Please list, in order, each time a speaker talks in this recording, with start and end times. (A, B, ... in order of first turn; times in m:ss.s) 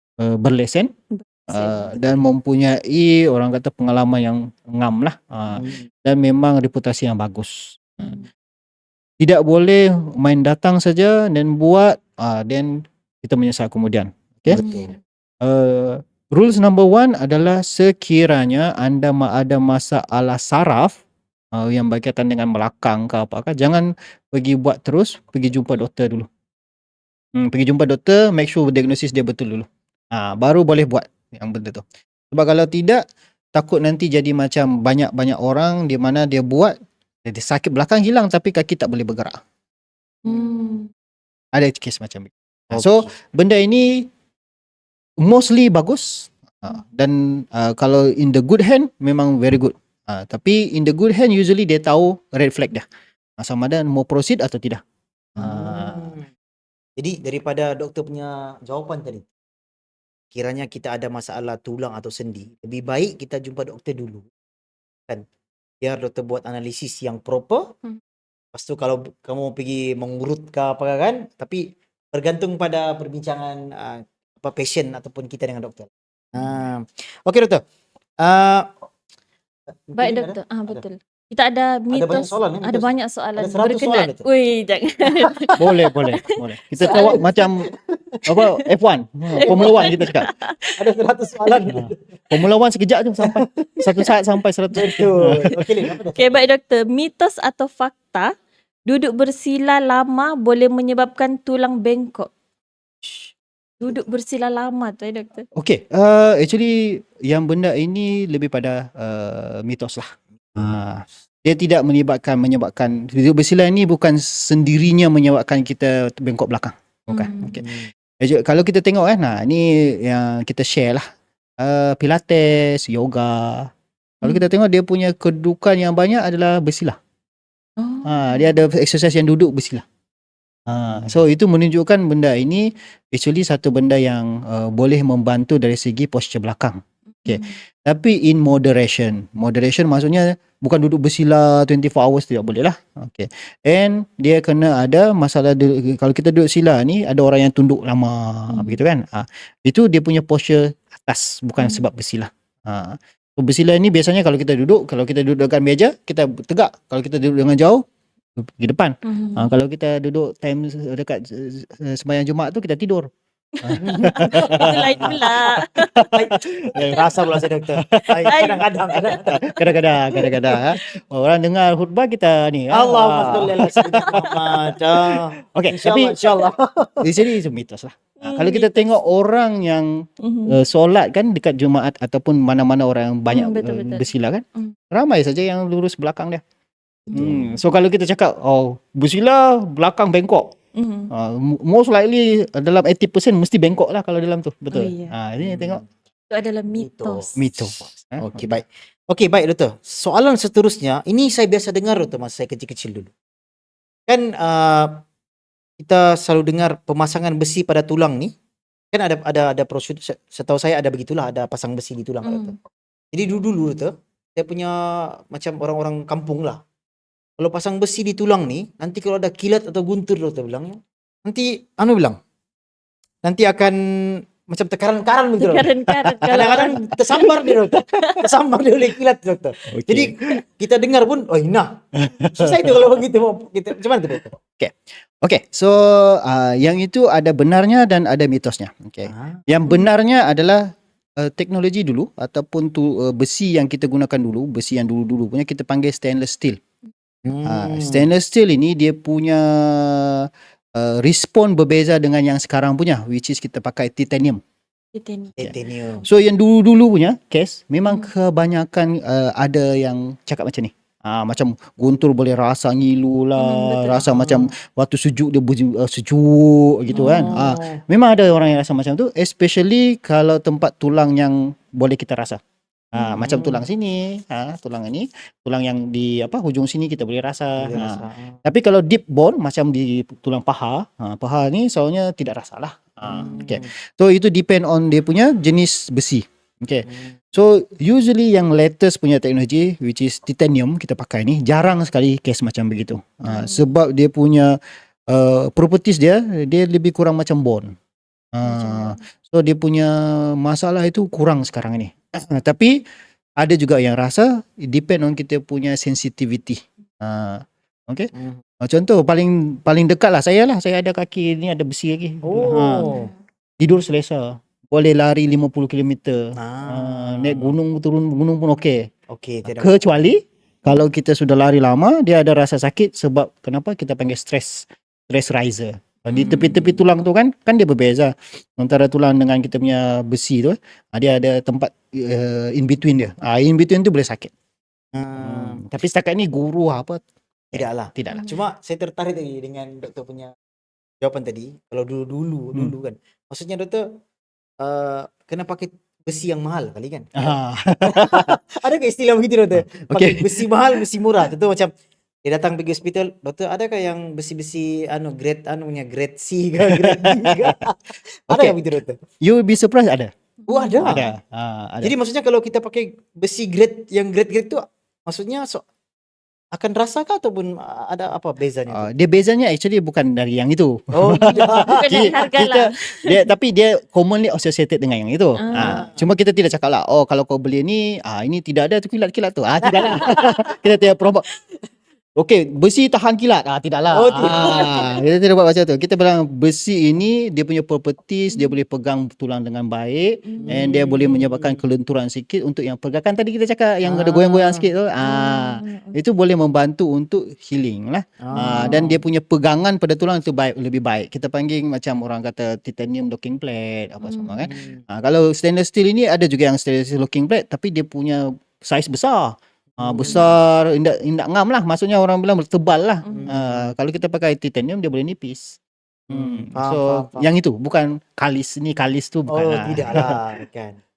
0:00.2-0:00.9 A
0:01.1-0:02.2 B
0:01.5-0:08.2 A
0:05.6-0:05.8 C
0:08.0-0:08.3 B
0:09.2-0:12.7 A
0:13.2-0:14.6 A
0:14.5-0:15.0 C
0:15.4-0:21.0 A
0:21.5-0:26.3 A
0:27.4-0:33.0 A
0:33.6-0:36.7 A
0:37.2-0:39.4 A
0:40.2-0:40.9 B
0:41.6-0:44.1 A
0:42.7-0:43.1 C
0:45.2-0:52.8 A
0:53.4-0:54.8 A
0:55.4-0:56.1 A
0:55.4-0:56.3 C
0:57.0-0:59.3 C
1:00.3-1:04.3 C
1:05.8-1:07.7 C
1:08.5-1:17.6 C
1:18.2-1:18.7 C
1:19.9-1:20.9 C
1:20.0-1:27.4 B
1:21.9-1:24.3 C
1:25.6-1:27.7 A
1:26.8-1:27.2 C
1:27.7-1:28.2 C
1:28.3-1:30.3 A
1:29.4-1:29.9 C
1:29.4-1:30.8 B
1:30.8-1:32.0 C
1:31.7-1:35.6 A
1:33.2-1:33.5 C
1:34.8-1:36.5 C
1:36.2-1:38.3 B
1:38.9-1:42.3 B
1:43.8-1:45.5 B
1:45.6-2:01.0 A
1:57.1-1:57.6 B
1:57.6-1:57.9 C
2:01.6-2:03.7 A
2:04.2-2:07.0 A
2:07.8-2:08.6 B
2:08.0-2:09.8 A
2:10.7-2:37.8 A
2:17.2-2:17.6 B
2:28.5-2:28.8 B
2:38.4-2:43.1 A
2:39.0-2:39.6 B
2:43.6-2:46.1 B
2:43.6-2:48.5 A
2:43.8-2:45.2 C
2:46.1-2:49.8 C
2:48.3-2:49.3 B
2:49.3-2:54.3 A
2:50.2-2:50.8 B
2:52.7-2:57.1 C
2:55.1-2:56.4 A
2:57.0-3:06.4 A
2:58.2-2:58.9 B
3:00.2-3:00.6 B
3:03.3-3:04.8 B
3:07.1-3:07.4 C
3:07.1-3:07.6 B
3:07.1-3:10.5 A
3:10.8-3:11.1 B
3:11.1-3:15.8 A
3:14.7-3:15.1 B
3:15.4-3:15.8 C
3:16.3-3:17.6 B
3:16.8-3:17.3 C
3:17.4-3:18.5 A
3:18.2-3:23.1 C
3:24.1-3:25.0 C
3:25.8-3:28.3 C
3:28.9-3:32.6 C
3:32.2-3:32.6 B
3:33.1-3:36.6 C
3:37.4-3:42.2 C
3:43.2-3:45.7 C
3:45.4-3:48.2 B
3:45.9-3:46.7 A
3:46.3-3:54.4 C
3:49.7-3:50.1 A
3:52.0-3:52.8 A
3:54.6-4:06.6 A
3:59.1-3:59.4 C
4:07.2-4:08.1 C
4:07.4-4:14.4 A
4:14.9-4:16.0 B
4:15.4-4:16.0 C
4:16.0-4:32.4 A
4:17.8-4:18.1 B
4:23.4-4:24.0 B
4:24.0-4:24.5 C
4:26.9-4:27.4 B
4:27.0-4:27.8 C
4:32.9-4:54.6 A
4:33.2-4:33.6 C
4:37.6-4:38.4 C
4:43.0-4:43.7 C
4:43.2-4:43.5 B
4:46.9-4:47.2 C
4:53.3-4:53.7 B
4:55.1-4:57.7 A
4:58.3-5:02.8 A
4:58.4-4:59.0 B
5:03.4-5:12.9 A
5:08.1-5:08.4 C
5:12.2-5:13.1 C
5:12.8-5:13.1 B
5:13.6-5:18.9 A
5:16.4-5:17.6 C
5:19.1-5:20.0 C
5:19.5-5:34.3 A
5:26.1-5:26.7 B
5:35.0-5:35.6 C
5:35.2-5:37.0 A
5:37.5-5:38.3 A
5:37.5-5:40.3 C
5:38.1-5:38.4 B
5:41.0-5:43.8 C
5:44.6-5:51.7 C
5:47.2-5:48.4 A
5:49.5-5:50.8 A
5:52.2-5:59.0 C
5:56.7-5:57.5 A
5:58.3-5:58.6 A
5:59.2-6:00.1 A
6:00.4-6:01.0 B
6:00.5-6:01.1 C
6:00.8-6:01.9 A
6:01.8-6:05.6 C
6:06.5-6:08.9 C
6:08.7-6:21.2 A
6:10.9-6:12.2 C
6:11.7-6:13.2 B
6:15.4-6:15.9 B
6:15.5-6:16.0 C
6:19.6-6:20.4 C
6:22.2-6:55.6 A
6:23.9-6:24.8 C
6:24.2-6:24.9 B
6:28.3-6:28.6 B
6:30.2-6:31.0 B
6:30.4-6:31.6 C
6:33.8-6:34.7 C
6:35.0-6:36.0 B
6:38.2-6:39.0 C
6:38.3-6:38.8 B
6:44.0-6:44.6 B
6:44.5-6:44.8 C
6:49.8-6:50.3 C
6:53.1-6:53.7 C
6:56.1-7:00.2 A
6:56.1-6:57.3 C
6:59.3-7:00.8 C